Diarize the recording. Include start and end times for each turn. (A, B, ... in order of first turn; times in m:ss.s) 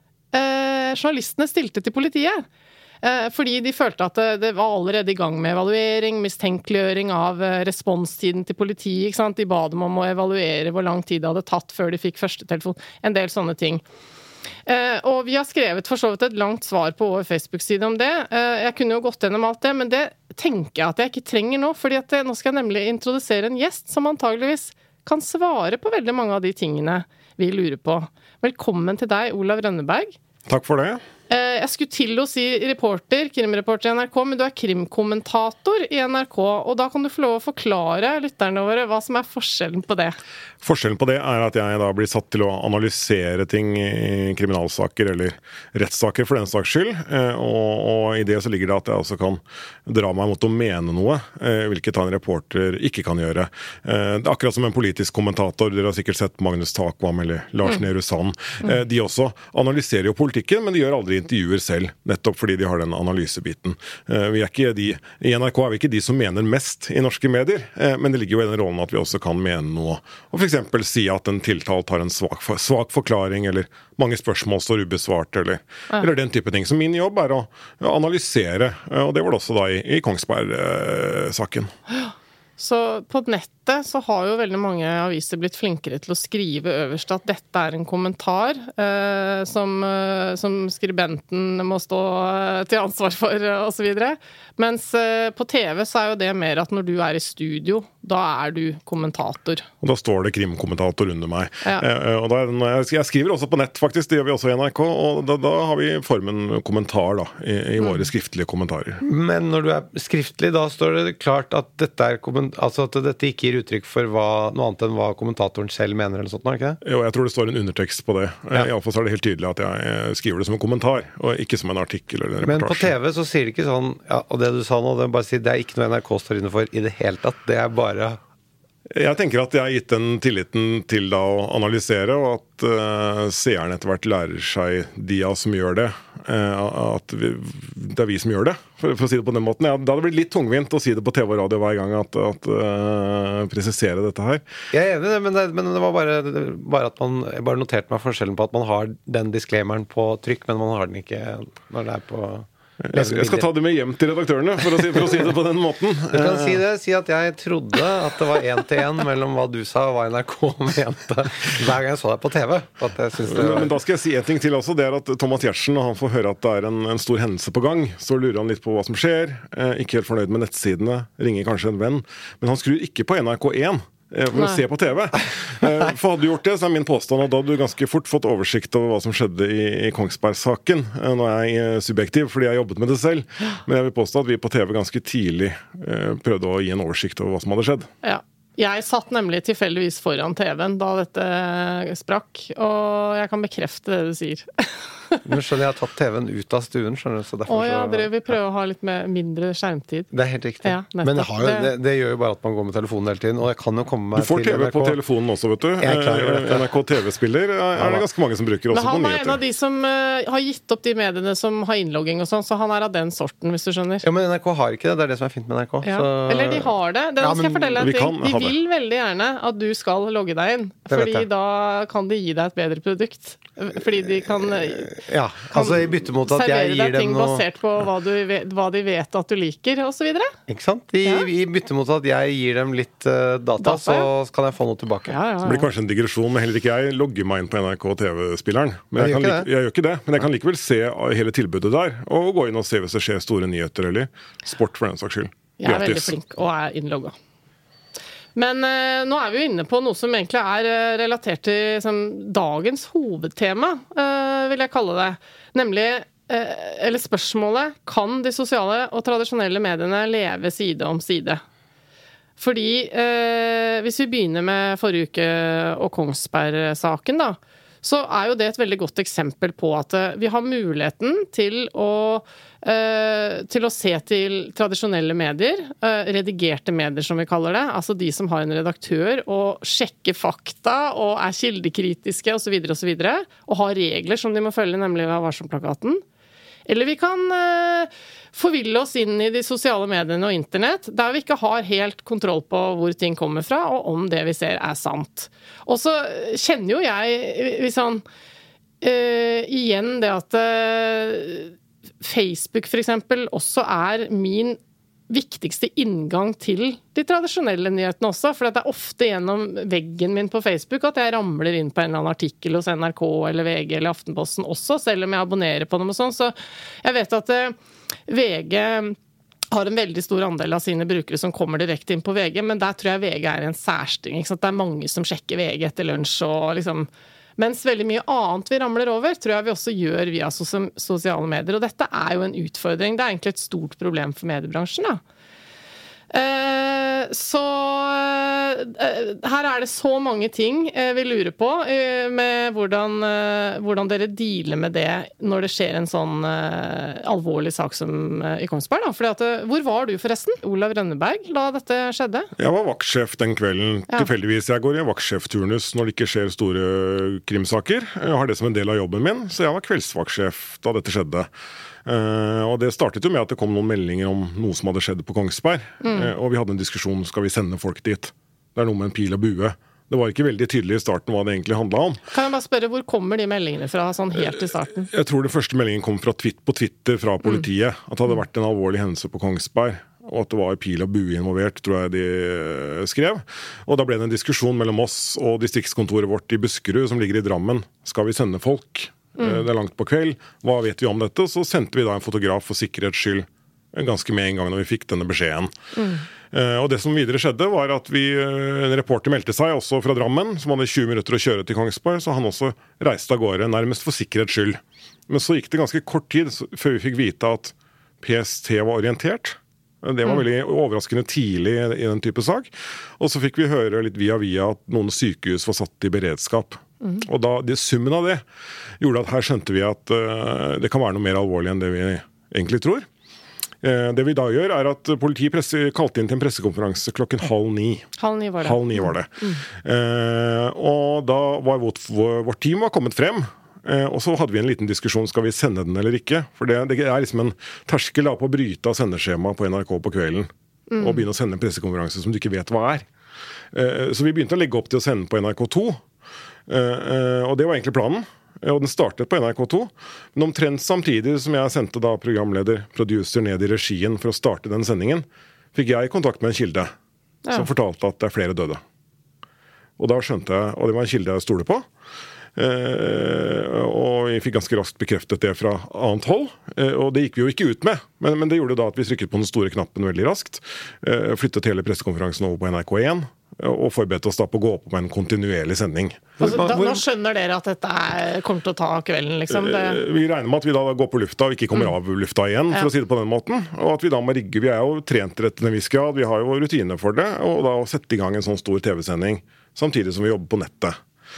0:00.3-0:02.4 A
0:03.0-0:13.8 A
0:14.7-0:30.2 A
0:30.5-0:31.0 B
0:31.3-0:40.2 A
0:40.6-1:21.7 B
1:21.9-1:39.6 A
1:39.8-1:49.0 B
1:49.0-1:56.8 C
1:56.8-2:02.9 B
2:02.4-2:08.2 C
2:08.9-2:24.4 B
2:24.7-2:33.5 C
2:32.8-2:36.6 B
2:34.6-2:35.2 C
2:36.1-2:43.7 C
2:43.2-3:07.9 B
2:54.3-2:54.6 A
3:08.0-3:15.2 A
3:15.2-3:18.1 C
3:17.5-3:20.1 A
3:20.1-3:25.0 C
3:20.6-3:21.7 A
3:24.2-3:29.4 B
3:25.8-3:26.7 C
3:27.8-3:28.0 C
3:28.7-3:34.0 A
3:34.0-3:37.8 C
3:35.8-3:44.9 A
3:37.8-3:38.6 B
3:40.9-3:41.3 C
3:44.7-3:47.4 C
3:45.5-3:50.3 A
3:50.5-3:55.2 C
3:53.6-3:54.1 A
3:55.1-3:55.6 A
3:55.4-4:06.1 B
3:59.0-3:59.5 C
4:05.6-4:07.1 A
4:08.3-4:21.4 A
4:22.4-4:46.0 A
4:46.6-4:58.0 A
4:58.8-5:04.6 A
5:05.1-5:17.5 A
5:18.1-5:19.0 A
5:19.5-5:35.0 A
5:36.1-5:52.3 A
5:52.4-6:01.3 B
6:01.8-6:12.0 B
6:05.8-6:06.1 A
6:12.1-6:14.9 A
6:14.9-6:35.5 B
6:29.2-6:29.4 A
6:35.8-6:36.0 A
6:36.3-6:58.2 B
6:58.8-7:02.9 B
7:03.6-7:22.8 B
7:08.0-7:09.4 A
7:20.7-7:21.1 A
7:23.5-7:25.8 B
7:26.5-7:36.7 B
7:37.3-7:38.6 B
7:39.8-7:41.6 B
7:42.4-7:56.6 B
7:56.2-7:56.8 C
7:56.2-7:59.8 A
7:59.3-8:10.8 B